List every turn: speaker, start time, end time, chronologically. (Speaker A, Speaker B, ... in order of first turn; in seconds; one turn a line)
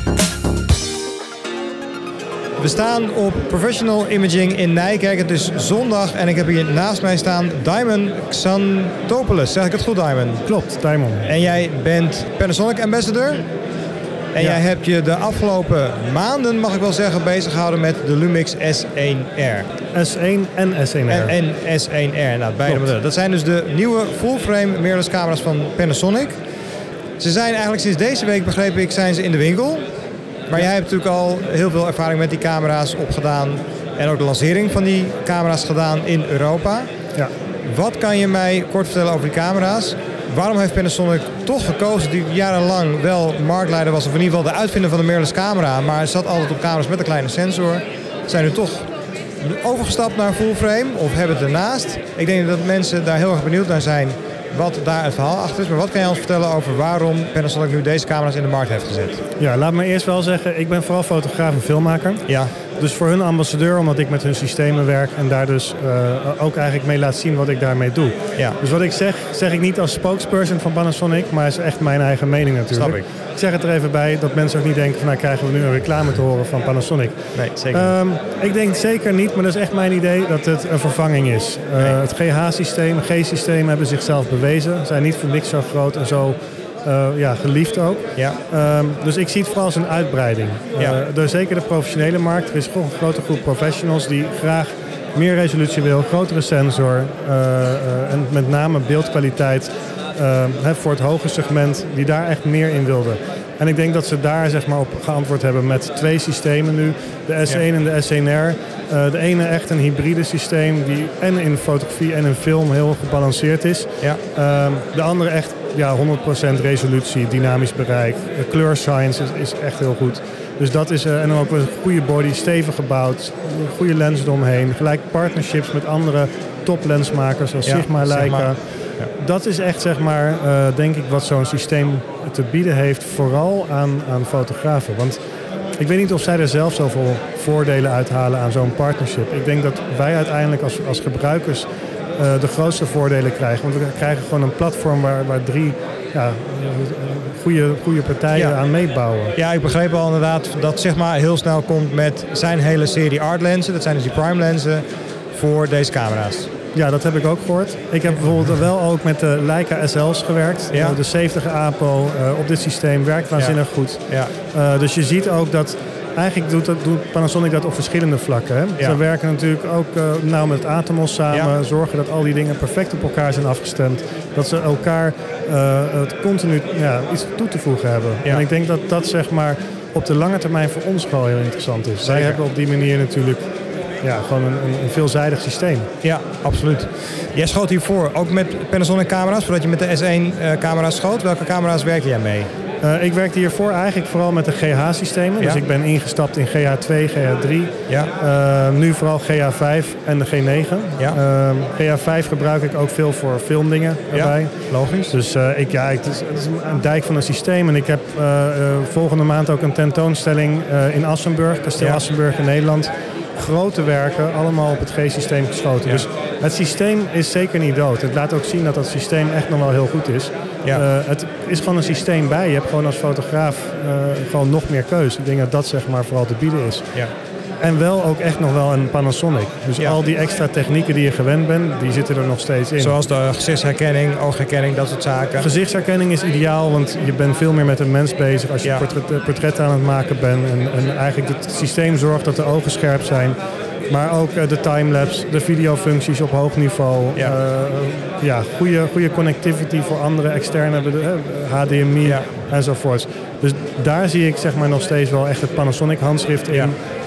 Speaker A: 2.6-10.4
Speaker B: 10.4-11.3
Speaker A: 11.2-13.4
Speaker A: 14.3-19.7
Speaker B: 14.4-14.6
Speaker B: 19.9-21.3
Speaker A: 21.1-26.3
Speaker A: 27.2-29.8
Speaker A: 30.5-36.9
Speaker A: 37.7-48.9
Speaker A: 49.4-59.2
Speaker B: 59.4-135.2
Speaker A: 62.3-62.5
Speaker A: 72.7-73.1
Speaker A: 77.3-77.9
Speaker A: 127.7-129.1
Speaker B: 135.8-149.3
Speaker A: 148.3-148.6
Speaker A: 149.3-156.5
Speaker B: 156.7-183.5
Speaker A: 160.7-161.0
Speaker A: 163.3-164.3
Speaker A: 182.0-182.4
Speaker B: 184.0-185.9
Speaker A: 186.0-192.5
Speaker B: 192.8-226.9
Speaker A: 204.1-205.2
Speaker B: 227.6-233.0
Speaker A: 232.8-235.5
Speaker B: 235.4-256.8
Speaker A: 252.0-252.3